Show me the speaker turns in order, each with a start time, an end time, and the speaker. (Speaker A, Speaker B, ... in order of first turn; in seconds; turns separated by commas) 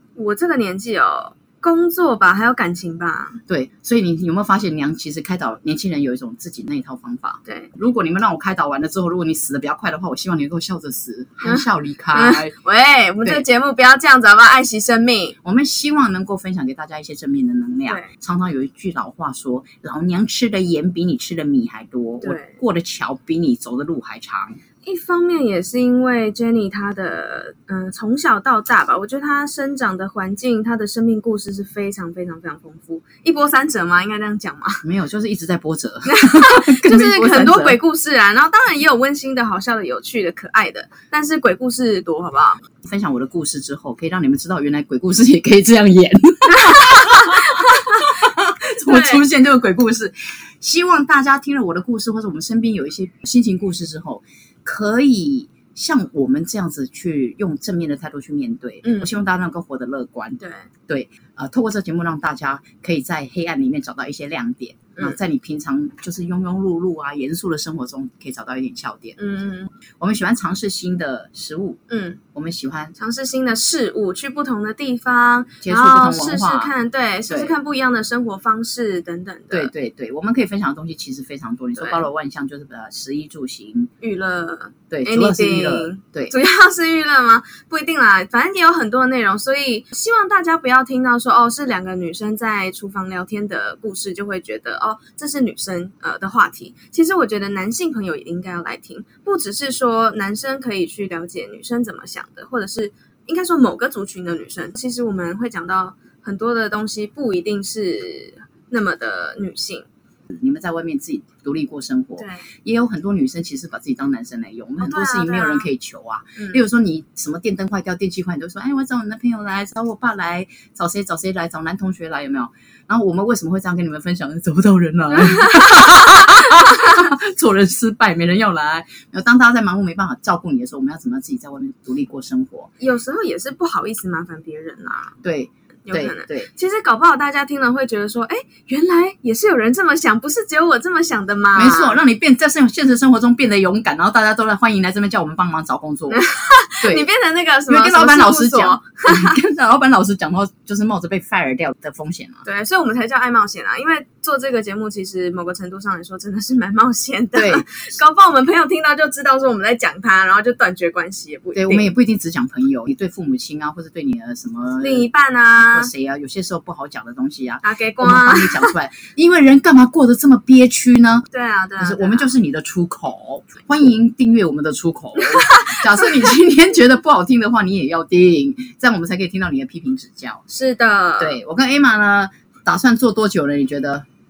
Speaker A: 0.2-3.4, Speaker B: 3.5-12.5, Speaker A: 11.4-15.4, Speaker B: 15.4-24.6, Speaker A: 22.2-22.6, Speaker A: 24.8-34.8, Speaker B: 34.8-37.8, Speaker A: 36.1-42.6, Speaker B: 42.8-69.2, Speaker A: 46.5-48.0, Speaker A: 48.9-49.2, Speaker A: 58.8-59.1, Speaker A: 60.4-60.7, Speaker A: 69.2-69.7, Speaker B: 70.0-71.8, Speaker A: 71.9-72.2, Speaker B: 72.3-73.0, Speaker A: 73.0-79.7, Speaker B: 75.6-76.7, Speaker B: 77.3-77.5, Speaker B: 79.5-83.9, Speaker A: 81.8-82.1, Speaker A: 84.0-109.9, Speaker B: 84.9-86.3, Speaker B: 110.3-132.7, Speaker A: 112.2-112.5, Speaker A: 114.8-115.7, Speaker A: 116.4-116.6, Speaker A: 132.8-135.2, Speaker B: 135.2-136.5, Speaker A: 135.9-142.0, Speaker B: 141.6-146.2, Speaker A: 146.1-149.4, Speaker B: 146.8-147.1, Speaker B: 147.7-152.4, Speaker A: 152.4-161.9, Speaker B: 157.3-157.7, Speaker B: 161.6-165.1, Speaker A: 164.8-165.9, Speaker B: 165.7-171.3, Speaker A: 167.6-168.7, Speaker A: 171.3-172.3, Speaker B: 171.8-180.4, Speaker A: 175.2-176.2, Speaker A: 180.5-181.4, Speaker B: 181.2-184.1